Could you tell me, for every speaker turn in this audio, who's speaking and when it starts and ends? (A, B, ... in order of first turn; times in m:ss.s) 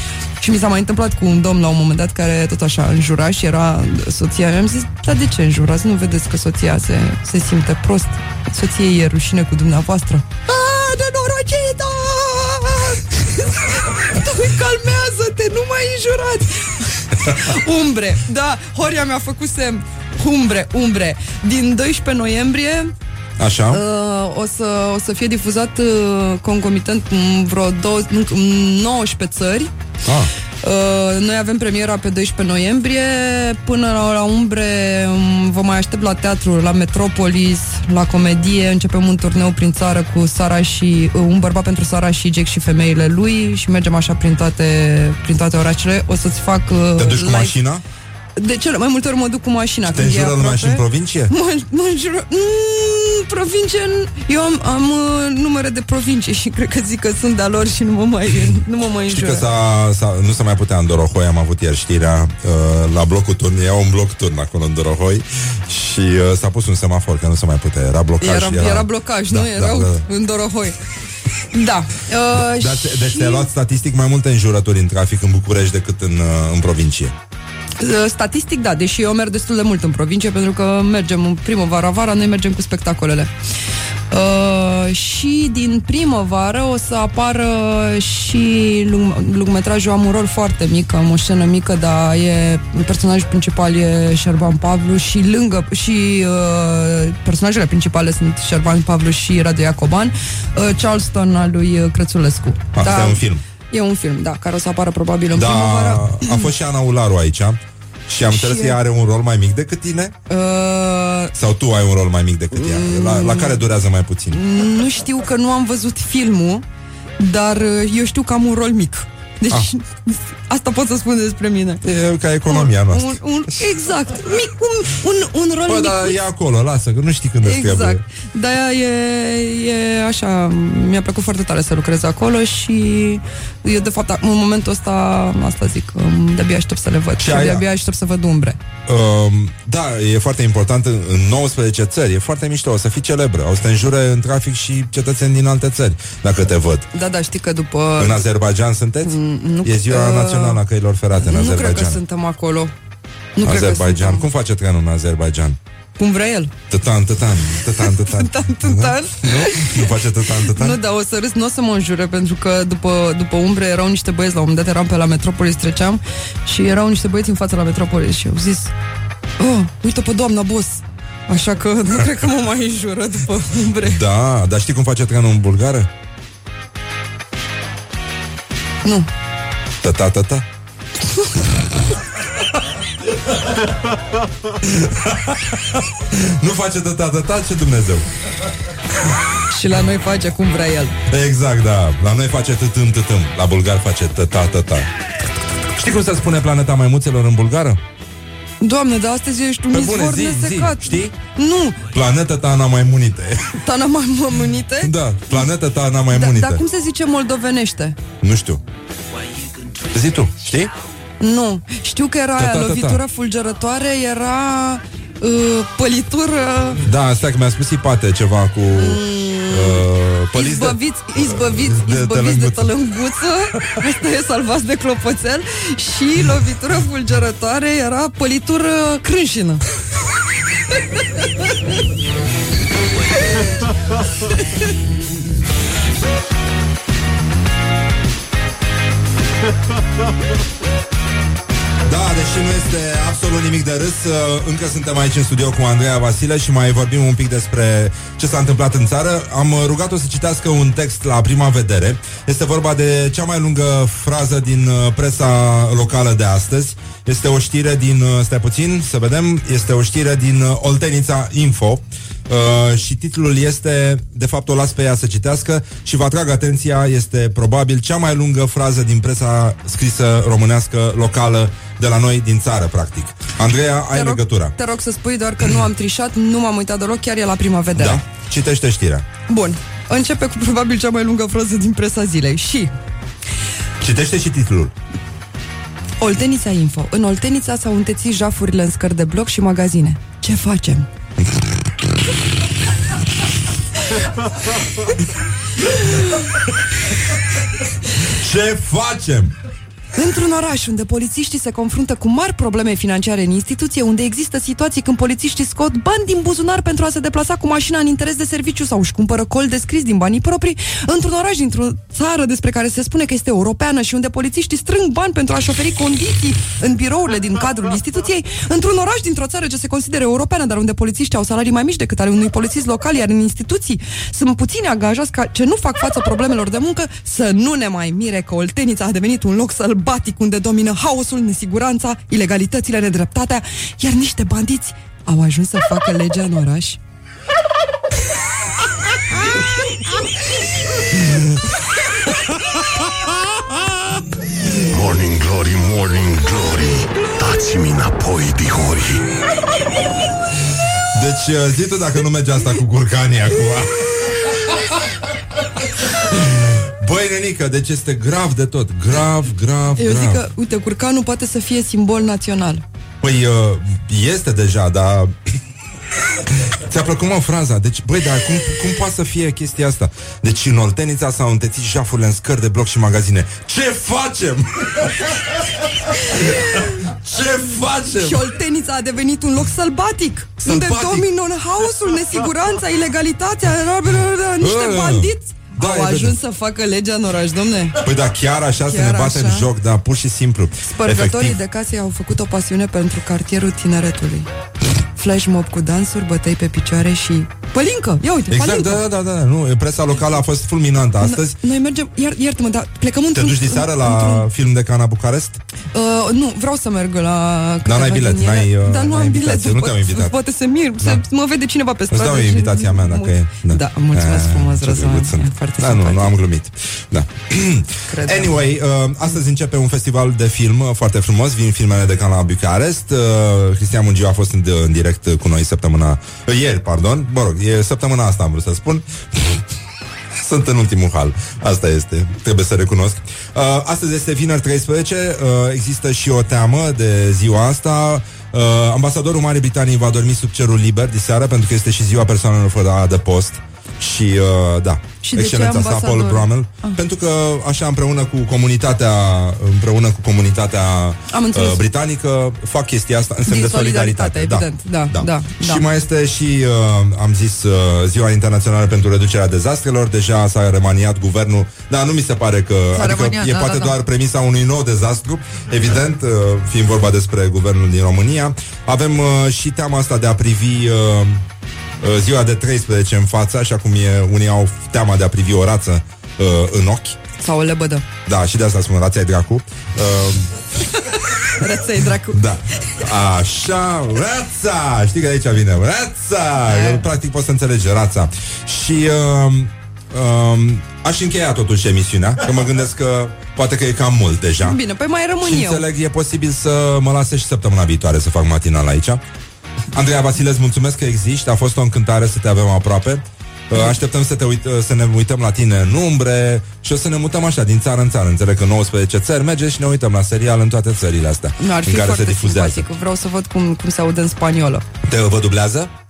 0:00.4-0:22.9 A
0:23.4-0:23.8 B
0:23.7-0:29.7 A
0:30.0-0:30.3 B
0:30.6-0:47.6 A
0:47.0-0:47.8 B
0:48.4-0:59.4 A
0:49.8-0:51.3 B
0:59.1-1:10.0 B
1:08.2-1:10.8 A
1:11.5-1:13.5 A
1:12.3-1:17.1 B
1:17.8-1:23.3 A
1:24.1-1:46.5 A
1:42.7-1:43.4 B
1:45.3-1:50.1 B
1:48.3-1:48.8 A
1:50.3-1:51.3 A
1:51.3-1:54.4 B
1:52.5-1:53.7 A
1:54.3-1:56.6 A
1:57.2-2:01.8 A
2:01.8-2:03.6 B
2:02.4-2:06.2 A
2:05.7-2:08.0 B
2:07.4-2:18.6 A
2:17.2-2:17.6 B
2:18.9-2:26.9 B
2:26.9-2:28.2 A
2:28.0-2:32.0 B
2:29.0-2:30.6 A
2:31.1-2:32.7 A
2:33.4-2:34.2 A
2:33.4-2:35.6 B
2:36.0-2:36.5 A
2:36.7-2:40.8 B
2:37.8-2:48.7 A
2:49.4-2:54.0 A
2:53.8-2:55.9 B
2:58.8-2:59.1 A
2:59.8-3:00.4 B
3:04.6-3:08.1 B
3:09.5-3:10.9 A
3:11.1-3:14.9 B
3:15.7-3:17.8 B
3:18.6-3:21.8 A
3:19.7-3:21.2 B
3:21.9-3:23.5 B
3:23.6-3:25.4 A
3:24.8-3:26.6 B
3:26.1-3:28.0 A
3:28.2-3:28.6 B
3:29.9-3:30.7 B
3:31.2-3:36.8 A
3:32.4-3:33.0 B
3:36.8-3:42.7 B
3:38.8-3:49.6 A
3:54.3-3:54.7 A
4:01.9-4:34.6 B
4:33.9-4:38.0 A
4:37.8-4:39.1 B
4:39.3-4:42.7 A
4:43.8-4:44.7 B
4:46.0-4:50.9 A
4:58.1-4:59.3 B
5:00.0-5:36.8 A
5:44.7-5:49.0 C
5:50.9-5:54.6 B
5:56.0-6:00.2 B
5:59.8-6:02.6 A
6:03.0-6:05.4 B
6:06.3-6:15.4 B
6:16.1-6:18.3 B
6:16.1-6:16.8 A
6:17.9-6:27.8 A
6:20.4-6:21.1 B
6:24.4-6:26.2 B
6:27.8-6:31.4 B
6:28.6-6:29.5 A
6:30.6-6:34.3 A
6:35.0-6:38.8 A
6:38.3-6:41.4 B
6:41.0-6:44.3 A
6:43.1-6:45.4 B
6:45.7-6:56.2 A
6:47.6-6:50.1 B
6:51.9-7:09.4 B
6:57.9-6:58.3 A
7:10.2-7:51.2 B
7:25.0-7:26.8 A
7:31.1-7:31.6 A
7:33.2-7:35.6 A
7:42.7-7:43.8 A
7:51.8-7:57.0 B
7:57.2-7:57.8 A
7:58.1-8:00.3 B
8:01.2-8:02.8 A
8:02.1-8:14.6 B
8:06.4-8:06.8 A
8:14.4-8:15.6 A
8:15.2-8:19.0 B
8:19.7-8:32.7 B
8:31.4-8:34.6 A
8:34.8-8:35.7 B